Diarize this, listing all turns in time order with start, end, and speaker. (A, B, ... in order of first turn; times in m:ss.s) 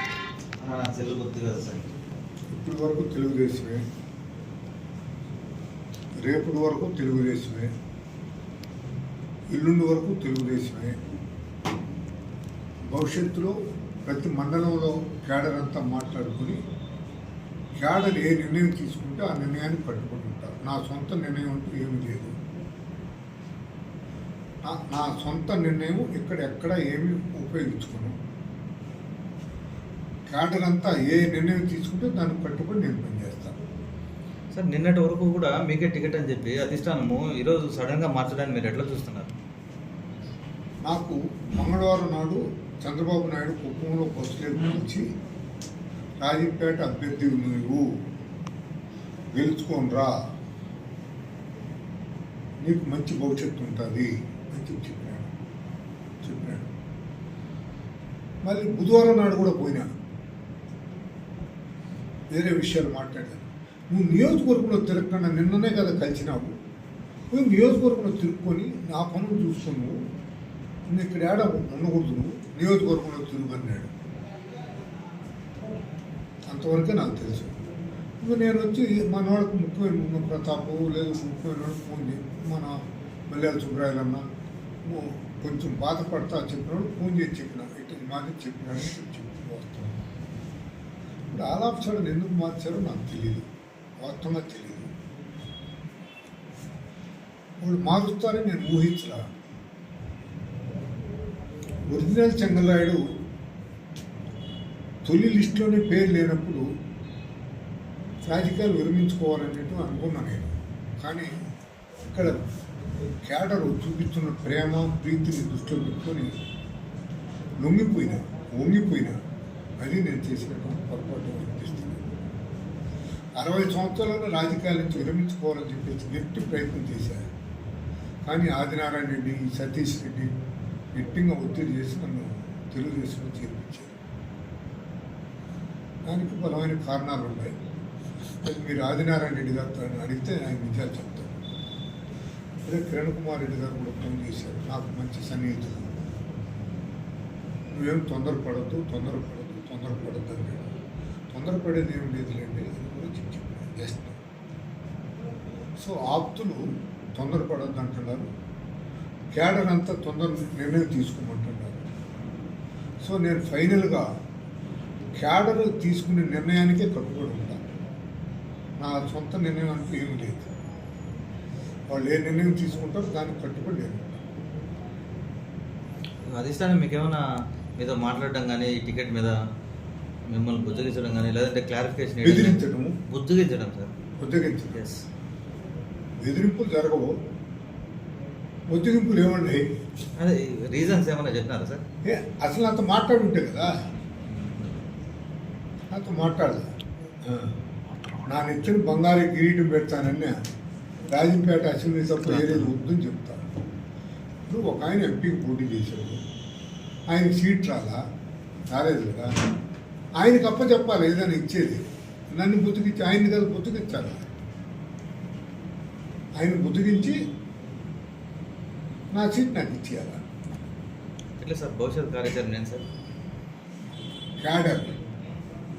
0:00.6-0:01.9 A
0:02.5-0:03.8 B
0:06.2-0:07.7 B
0:09.5-0:11.0 B
0:12.9-0:13.5 B
0:14.0-0:16.6 B
0:17.8-0:22.4 B
0:24.6-0:28.2 B
0:30.3-0:33.5 B
0:34.5-0:39.3 A
0:40.8-0:45.0 B
0:46.2-0:47.9 B
0:49.3-0:50.1 B
0:52.6-0:55.3 B
0:56.2-0:56.7 B
0:58.4-0:59.9 B
1:02.3-1:06.5 B
1:07.3-1:09.9 B
1:10.9-1:13.9 B
1:16.5-1:17.5 B
1:18.2-1:22.8 B
1:23.3-1:24.2 B
1:24.8-1:30.0 B
1:31.3-1:33.4 B
1:34.0-1:34.9 B
1:37.6-1:39.2 B
1:41.9-1:43.0 B
1:45.0-1:46.6 B
1:48.3-1:51.3 B
1:52.1-1:52.4 B
1:53.2-1:56.4 B
1:57.6-1:59.2 B
1:59.8-2:02.0 B
2:03.4-2:07.3 B
2:08.3-2:10.3 B
2:10.9-2:13.9 B
2:16.1-2:17.5 B
2:18.4-2:21.3 B
2:22.6-2:26.0 B
2:27.7-2:30.6 B
2:31.3-2:34.2 B
2:35.8-2:38.3 B
2:39.3-2:41.9 B
2:43.0-2:44.1 B
2:45.2-2:47.6 B
2:48.8-2:50.5 B
2:51.9-2:54.2 B
2:56.3-2:57.2 A
2:57.8-2:59.4 A
3:00.3-3:03.9 A
3:02.2-3:03.0 B
3:04.2-3:04.8 B
3:04.7-3:05.0 A
3:06.2-3:07.1 B
3:08.7-3:09.7 B
3:10.2-3:11.8 A
3:12.0-3:13.7 B
3:15.9-3:17.5 B
3:18.2-3:20.3 B
3:21.1-3:23.5 B
3:22.2-3:22.7 A
3:24.5-3:26.2 B
3:27.1-3:28.0 B
3:28.7-3:29.4 B
3:30.2-3:34.2 B
3:36.4-3:37.2 B
3:39.1-3:40.2 B
3:41.4-3:42.8 A
3:44.4-3:45.0 B